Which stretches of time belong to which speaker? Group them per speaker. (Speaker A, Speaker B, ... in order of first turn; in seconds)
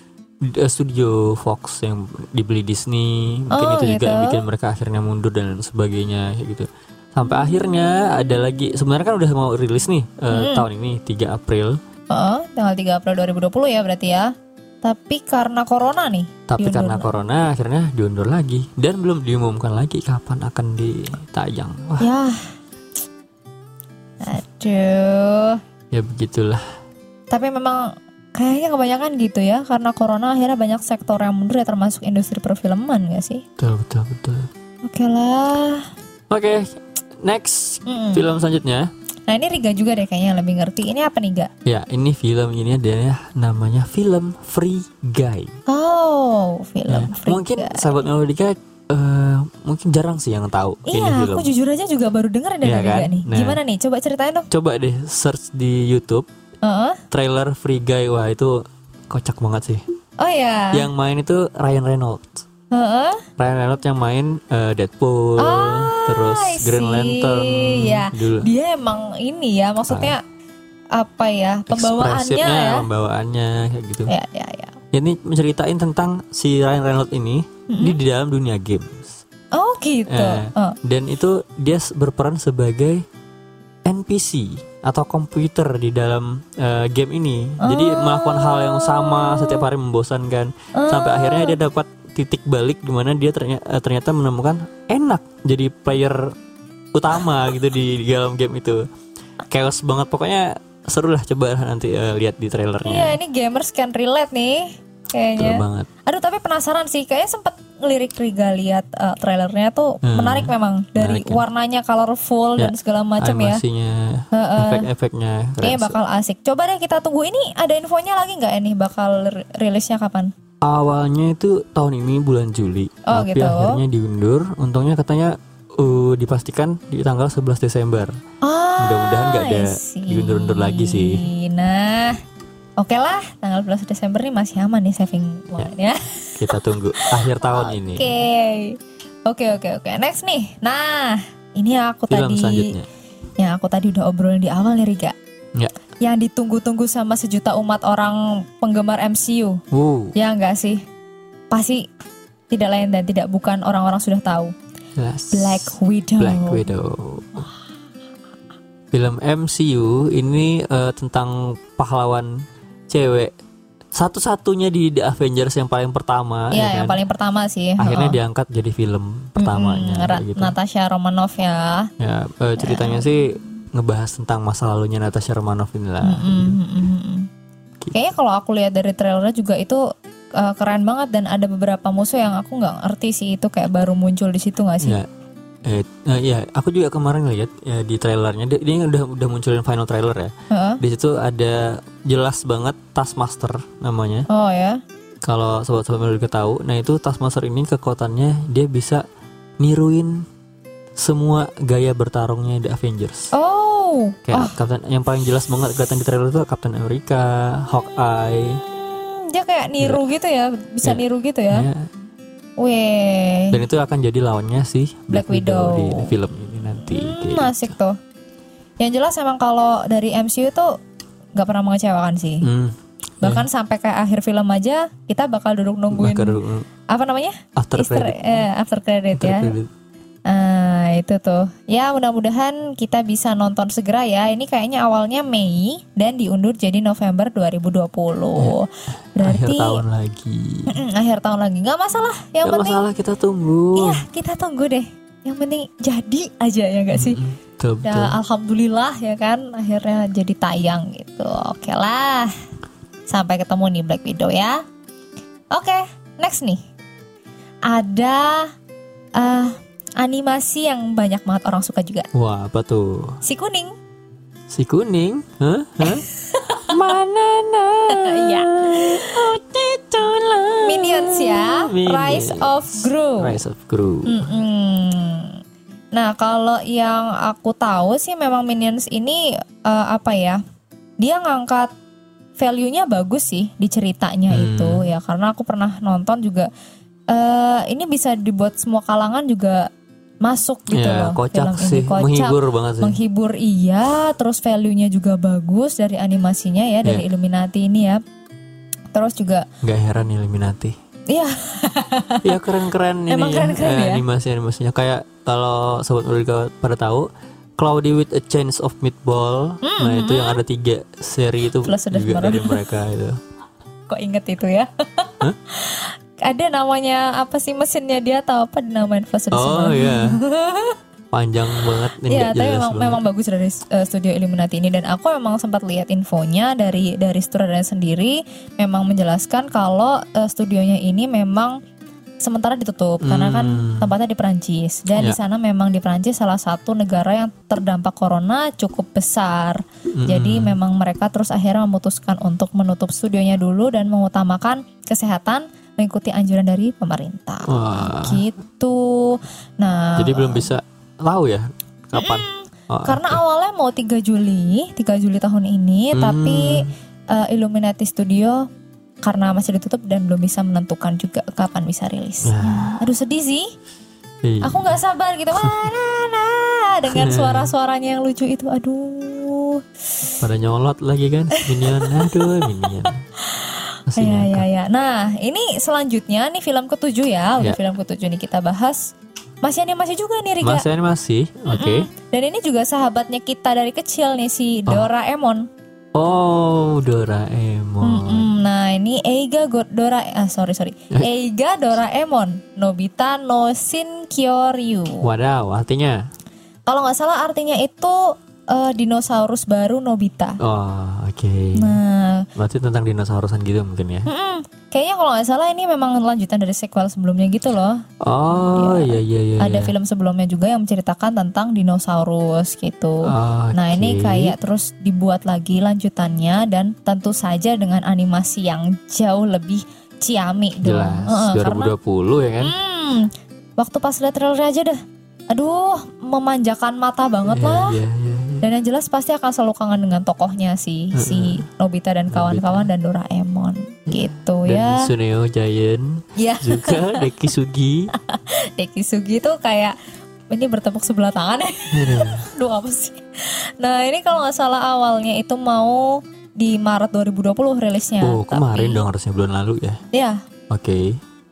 Speaker A: 0.4-11.8, 16.5-22.1, 25.9-26.6, 33.6-34.5, 36.3-38.9, 41.6-45.5, 46.9-51.5, 52.6-53.6, 54.5-56.3, 57.1-59.8, 60.7-62.4, 63.4-68.5, 69.9-70.1, 71.7-74.1, 74.9-79.1, 80.1-83.0, 83.8-96.3, 96.9-98.9, 99.5-103.2, 105.4-105.9, 110.0-111.5, 112.6-116.0, 120.6-128.2, 128.8-131.2, 136.4-138.1, 142.1-142.9, 149.7-150.1, 155.0-157.5, 158.9-163.3, 163.9-167.0, 167.8-170.6, 172.0-176.6, 184.8-185.1, 185.7-194.3, 195.2-199.0, 199.6-200.3, 201.0-203.3, 204.3-208.6, 210.8-211.9, 213.5-217.7, 222.4-223.5, 225.9-226.7, 227.6-228.5, 229.2-229.7, 239.2-240.8, 242.4-244.1, 246.9-248.2, 262.1-263.2, 264.5-274.3, 284.3-284.8, 290.7-293.0, 299.6-300.8, 302.2-313.2, 319.3-320.1, 321.1-323.0, 333.0-333.9, 340.0-340.6, 347.5-348.2, 350.0-353.2, 355.9-356.7, 362.2-362.8, 364.2-364.8, 366.9-367.5, 370.2-373.0, 373.9-374.5, 380.4-381.9, 386.0-388.3, 395.0-396.0, 400.4-401.8, 402.4-404.1, 408.0-409.7, 413.1-414.4, 420.6-422.6, 427.3-428.5, 430.9-431.4, 432.1-432.7, 433.9-437.9, 441.7-442.3, 448.0-449.8, 450.5-451.0
Speaker B: 3.5-4.4, 10.3-10.7, 12.1-17.1, 22.0-22.5, 24.2-25.6, 27.3-33.4, 34.9-35.9, 37.9-38.2, 39.3-41.5, 45.7-47.9, 50.9-54.5, 56.6-57.0, 60.2-60.9, 62.7-63.2, 65.4-70.2, 71.0-72.9, 74.1-74.8, 77.7-78.0, 79.5-80.8, 87.6-89.6, 90.8-91.6, 102.8-113.6, 114.3-114.9, 115.6-120.3, 123.1-123.8, 128.4-132.2, 132.8-142.7, 143.4-145.2, 146.0-149.6, 150.2-150.8, 151.5-151.9, 152.5-154.5, 155.3-156.7, 166.5-168.2, 169.4-171.9, 172.6-173.1, 176.0-177.3, 177.9-179.8, 180.4-185.0, 190.5-190.8, 194.3-194.8, 203.3-204.6, 208.5-211.7, 212.6-213.6, 215.1-216.1, 216.8-217.9, 218.8-220.7, 221.4-222.5, 223.2-226.4, 226.9-229.5, 230.3-239.8, 240.7-242.8, 243.8-247.2, 247.8-252.3, 253.1-254.6, 255.5-256.6, 257.7-258.5, 259.2-262.1, 263.2-263.8, 265.8-266.7, 267.9-269.2, 270.7-273.4, 274.1-275.4, 275.9-280.4, 281.0-281.7, 282.4-286.5, 287.1-289.7, 290.2-298.0, 298.9-299.5, 301.1-302.4, 303.1-304.0, 309.6-310.4, 311.6-312.6, 313.9-320.8, 322.1-331.6, 332.2-350.5, 352.0-358.5, 359.0-363.5, 364.4-370.1, 371.4-372.7, 373.3-380.7, 381.5-385.5, 387.8-395.1, 396.7-400.4, 401.6-402.3, 404.1-421.7, 422.4-424.8, 425.3-427.8, 428.4-434.9, 436.2-437.1, 437.9-439.8, 440.3-448.8, 449.9-450.2